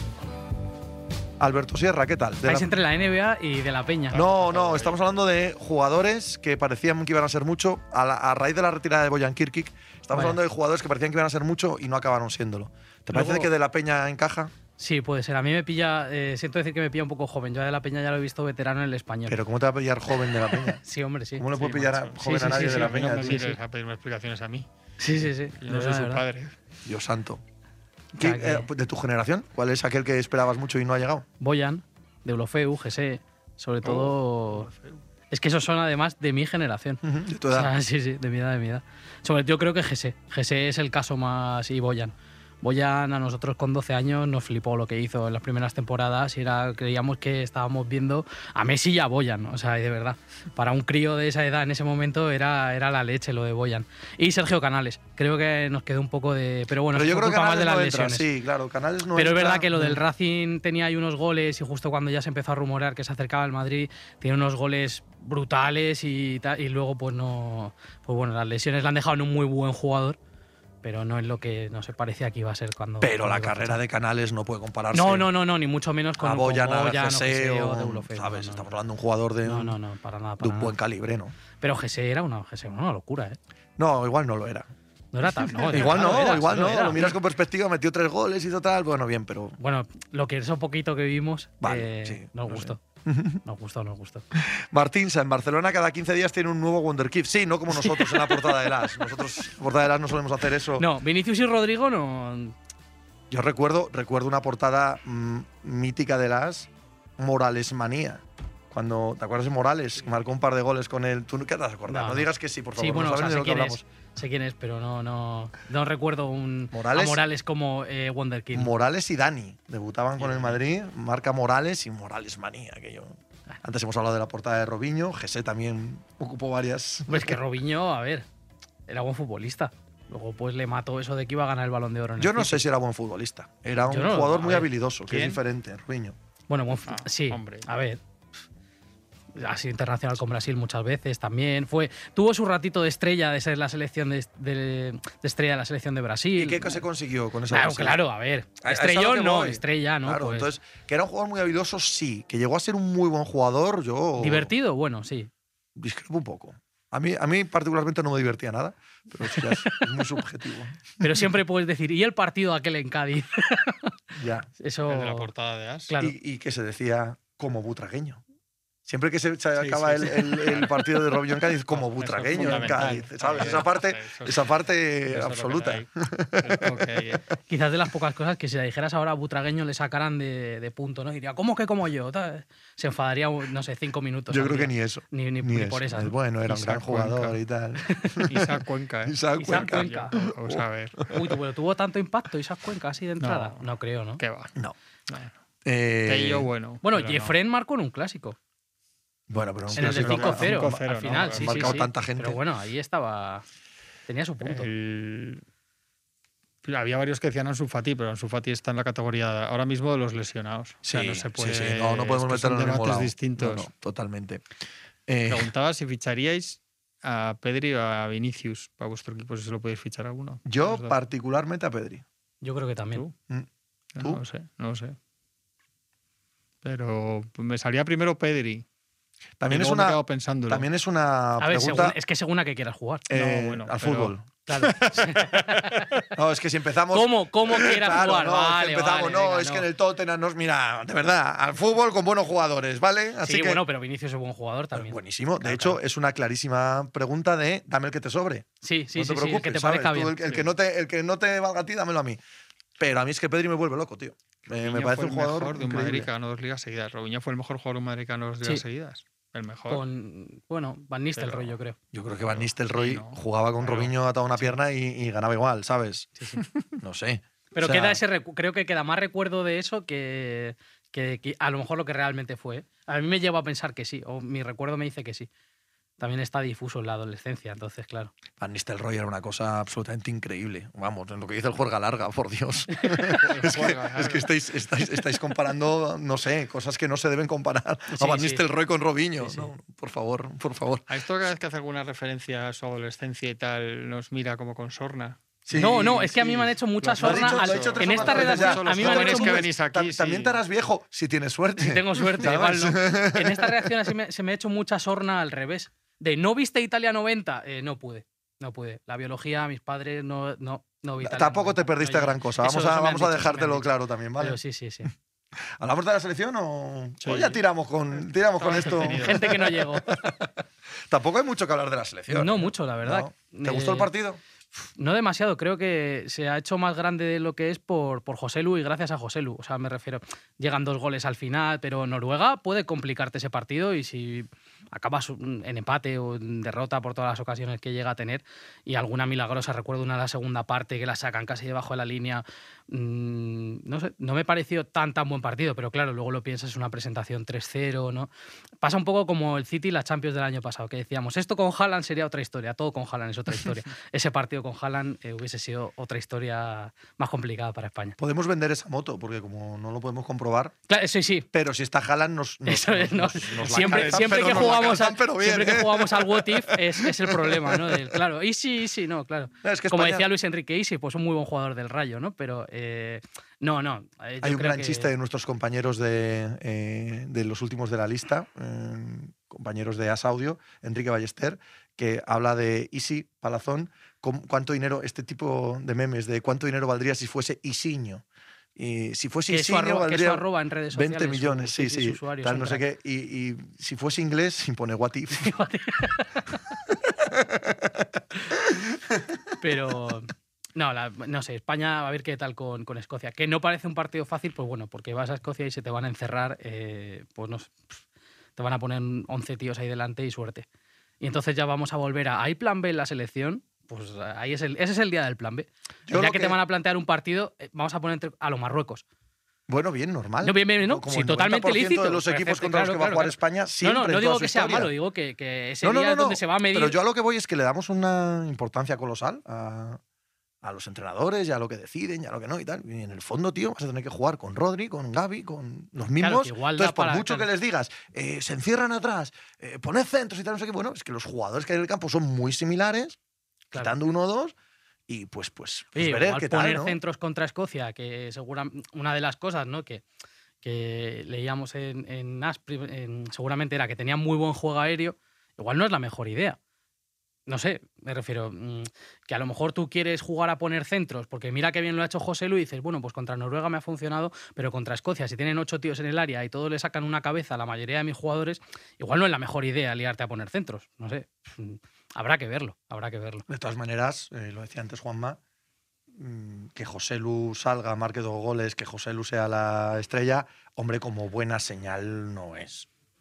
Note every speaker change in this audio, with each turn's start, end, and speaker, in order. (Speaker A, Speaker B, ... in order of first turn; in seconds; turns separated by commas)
Speaker A: 1.4-2.7, Speaker B: 2.4-4.2, Speaker C: 4.1-5.1, Speaker A: 4.1-14.5, Speaker B: 10.1-10.4, Speaker B: 13.1-13.5, Speaker B: 14.8-19.4, Speaker A: 19.3-20.8, Speaker B: 20.4-21.5, Speaker A: 21.4-23.5, Speaker C: 21.6-24.7, Speaker B: 22.2-23.6, Speaker B: 25.0-26.2, Speaker C: 25.6-26.6, Speaker A: 26.9-27.4, Speaker B: 28.2-28.7, Speaker A: 28.2-31.3, Speaker B: 31.4-34.7, Speaker C: 33.8-35.0, Speaker B: 35.3-58.3, Speaker A: 37.0-37.7, Speaker A: 56.9-60.0, Speaker B: 59.1-70.2, Speaker B: 70.8-73.8, Speaker A: 73.0-75.3, Speaker B: 74.9-78.7, Speaker A: 76.2-79.8, Speaker B: 79.5-80.8, Speaker A: 80.4-81.3, Speaker B: 81.6-83.4, Speaker A: 83.8-84.7, Speaker B: 85.1-87.1, Speaker C: 85.5-86.8, Speaker A: 85.6-89.6, Speaker B: 89.6-92.8, Speaker A: 91.6-93.4, Speaker B: 93.4-94.3, Speaker A: 94.3-100.9, Speaker B: 97.7-99.3, Speaker B: 100.8-102.5, Speaker A: 103.3-113.8, Speaker B: 111.9-118.7, Speaker A: 116.7-117.2, Speaker A: 118.5-127.4, Speaker B: 120.2-120.6, Speaker B: 127.1-128.3, Speaker B: 128.9-132.7, Speaker A: 132.2-136.2, Speaker B: 133.8-134.7, Speaker C: 135.1-135.4, Speaker B: 136.5-138.0, Speaker C: 136.9-137.7, Speaker B: 139.3-146.8, Speaker A: 146.4-148.0, Speaker B: 147.5-150.5, Speaker A: 148.6-154.5, Speaker B: 154.2-155.3, Speaker A: 155.8-161.2, Speaker B: 159.3-160.1, Speaker B: 161.0-164.0, Speaker A: 164.2-164.5, Speaker B: 164.6-165.3, Speaker C: 164.9-165.9, Speaker B: 165.9-166.2, Speaker A: 166.0-168.2, Speaker A: 168.9-177.0, Speaker C: 169.6-170.9, Speaker C: 171.7-174.5, Speaker C: 175.1-177.2, Speaker B: 177.5-186.2, Speaker A: 184.3-191.2, Speaker C: 186.5-187.4, Speaker B: 187.9-188.2, Speaker C: 188.3-191.1, Speaker B: 189.4-190.1, Speaker B: 191.1-194.2, Speaker C: 193.2-193.6, Speaker C: 194.2-194.6, Speaker C: 195.1-195.3, Speaker A: 195.7-196.5, Speaker C: 196.1-197.3, Speaker B: 196.8-198.4, Speaker A: 199.3-202.4, Speaker C: 199.7-201.9, Speaker B: 199.7-203.4, Speaker B: 204.1-204.7, Speaker C: 204.4-205.4, Speaker C: 206.7-213.7, Speaker A: 210.8-214.4, Speaker A: 215.1-215.5, Speaker C: 215.3-220.9, Speaker A: 220.5-222.0, Speaker B: 222.4-223.0, Speaker C: 223.9-225.0, Speaker C: 226.6-228.7, Speaker A: 229.4-232.0, Speaker C: 229.5-230.7, Speaker B: 231.4-233.1, Speaker A: 233.1-234.3, Speaker C: 233.1-236.0, Speaker B: 234.5-236.0, Speaker A: 236.2-243.6, Speaker B: 236.9-239.7, Speaker B: 243.2-245.8, Speaker A: 244.7-252.2, Speaker B: 248.6-250.2, Speaker A: 252.8-256.1, Speaker C: 254.6-259.8, Speaker B: 259.7-261.8, Speaker C: 261.2-261.6, Speaker A: 261.9-266.1, Speaker C: 262.2-263.9, Speaker A: 266.8-268.0, Speaker B: 267.5-275.3, Speaker B: 276.0-278.1, Speaker A: 278.4-290.9, Speaker B: 282.9-283.2, Speaker C: 283.0-284.3, Speaker B: 287.9-288.4, Speaker B: 289.2-289.5, Speaker C: 290.9-295.2, Speaker A: 295.5-303.7, Speaker B: 295.5-299.4, Speaker C: 296.8-300.4, Speaker B: 301.6-314.9, Speaker A: 311.0-314.4, Speaker A: 315.6-324.2, Speaker C: 317.0-317.4, Speaker C: 318.4-319.4, Speaker B: 318.6-320.1, Speaker B: 322.1-323.9, Speaker B: 324.6-348.1, Speaker B: 348.6-358.0, Speaker A: 358.0-360.5, Speaker B: 360.7-361.3, Speaker A: 361.3-368.0, Speaker B: 362.5-374.9, Speaker C: 363.4-364.7, Speaker A: 369.4-370.1, Speaker A: 374.2-388.0, Speaker A: 388.6-395.3, Speaker B: 389.3-392.6, Speaker B: 395.1-396.4, Speaker A: 396.7-399.3, Speaker B: 399.4-407.8, Speaker B: 408.4-410.5, Speaker B: 411.0-418.8, Speaker A: 415.9-416.4, Speaker A: 419.5-424.7, Speaker B: 420.2-426.8, Speaker A: 425.6-429.8, Speaker A: 430.4-443.0, Speaker B: 436.0-437.3, Speaker A: 443.6-444.3, Speaker A: 444.9-446.8, Speaker B: 445.8-449.8, Speaker B: 450.4-456.4, Speaker B: 457.3-473.2, Speaker A: 473.3-475.2, Speaker A: 475.9-482.7